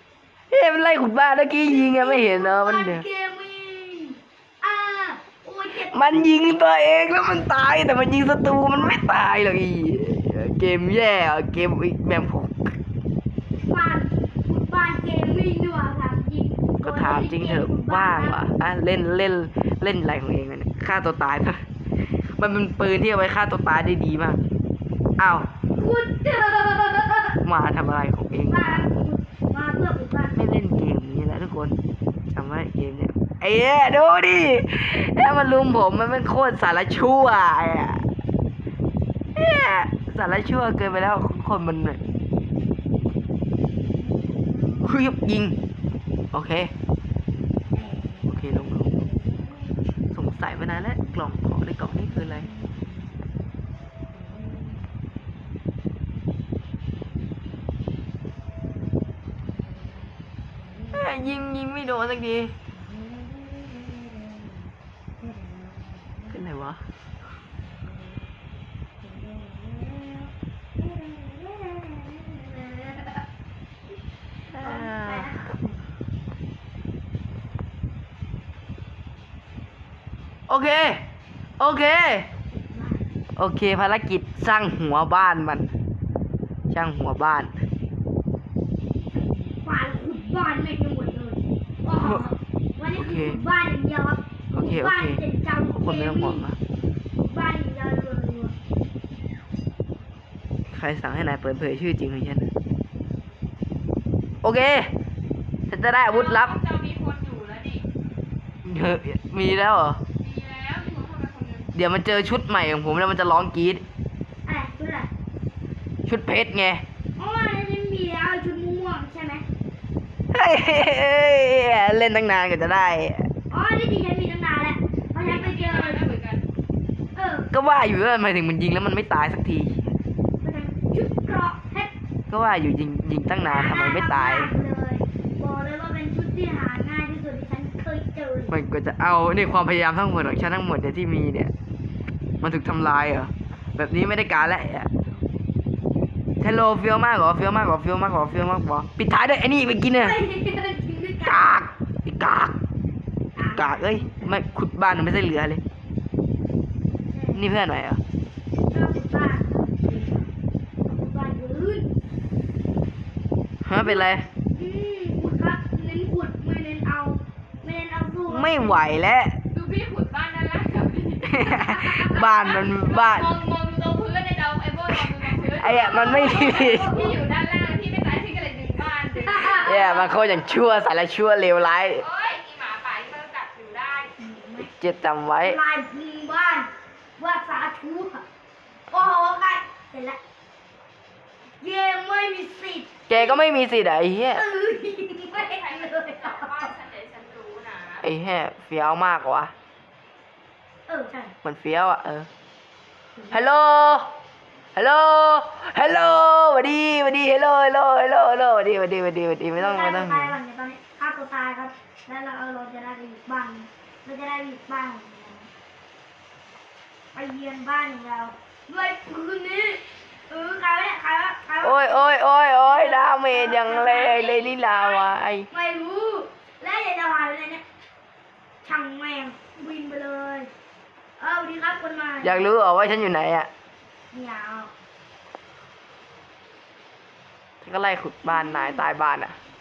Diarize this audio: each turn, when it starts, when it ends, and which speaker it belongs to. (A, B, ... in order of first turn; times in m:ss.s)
0:00.5-0:03.0 A
0:01.6-0:06.2 B
0:05.9-0:12.8 A
0:08.7-0:09.0 B
0:13.6-0:18.4 B
0:16.8-0:21.6 A
0:22.4-0:24.4 A
0:25.2-0:25.5 A
0:25.8-0:27.4 B
0:27.4-0:28.8 A
0:28.5-0:30.4 B
0:30.3-0:31.8 A
0:32.3-0:38.1 A
0:39.3-0:42.0 A
0:43.9-0:44.9 B
0:44.8-0:45.6 A
0:46.3-0:46.7 A
0:47.7-0:48.4 B
0:48.2-0:49.0 A
0:49.0-0:49.7 B
0:50.1-0:52.5 A
0:52.4-0:53.1 B
0:54.2-0:54.9 B
0:59.6-1:00.0 B
1:00.9-1:02.5 A
1:02.8-1:04.4 B
1:05.2-1:05.9 B
1:06.3-1:06.8 A
1:09.1-1:13.2 B
1:14.5-1:15.3 A
1:14.6-1:15.8 B
1:20.5-1:21.0 A
1:21.6-1:22.3 A
1:22.5-1:23.1 B
1:23.4-1:25.7 A
1:26.7-1:27.5 A
1:29.1-1:36.4 B
1:33.0-1:33.4 A
1:34.5-1:35.2 A
1:35.7-1:36.6 A
1:37.2-1:38.6 B
1:40.7-1:42.5 A
1:44.4-1:44.9 A
1:45.7-1:46.6 A
1:46.1-1:47.9 C
1:48.6-1:50.0 A
1:50.2-1:51.7 C
1:51.7-1:53.8 A
1:54.4-1:55.1 B
1:56.1-1:56.8 A
1:57.2-1:59.4 B
2:00.3-2:03.3 A
2:03.5-2:06.1 B
2:05.2-2:06.4 C
2:07.1-2:07.5 B
2:07.5-2:09.9 A
2:10.4-2:11.9 B
2:12.3-2:14.5 A
2:13.4-2:18.5 B
2:18.5-2:21.5 A
2:22.4-2:24.9 A
2:26.4-2:30.2 A
2:30.0-2:31.6 B
2:31.2-2:32.6 A
2:33.4-2:34.5 B
2:33.5-2:35.6 A
2:37.1-2:37.4 B
2:37.3-2:38.0 A
2:38.7-2:40.3 B
2:40.8-2:41.9 B
2:43.6-2:44.3 A
2:43.8-2:48.8 B
2:48.3-2:49.4 A
2:49.5-2:51.5 C
2:51.2-2:53.3 A
2:51.4-2:52.1 B
2:52.1-2:59.9 C
2:55.6-2:56.9 A
2:55.6-2:57.2 B
2:59.3-3:00.2 B
2:59.4-3:02.0 A
3:02.0-3:04.1 C
3:04.2-3:04.7 B
3:04.6-3:05.6 A
3:05.4-3:08.2 B
3:08.9-3:10.2 B
3:11.6-3:13.4 B
3:13.1-3:14.4 A
3:14.3-3:16.7 B
3:15.3-3:18.0 C
3:18.0-3:19.5 A
3:20.9-3:21.3 B
3:21.4-3:22.3 A
3:23.3-3:24.1 A
3:24.7-3:30.4 A
3:29.6-3:35.5 B
3:37.1-3:42.0 B
3:41.6-3:45.5 A
3:42.6-3:47.6 B
3:48.6-3:50.5 B
3:51.2-3:52.5 B
3:52.2-3:53.5 A
3:54.1-3:54.7 B
3:57.6-3:59.4 A
3:58.2-3:58.9 B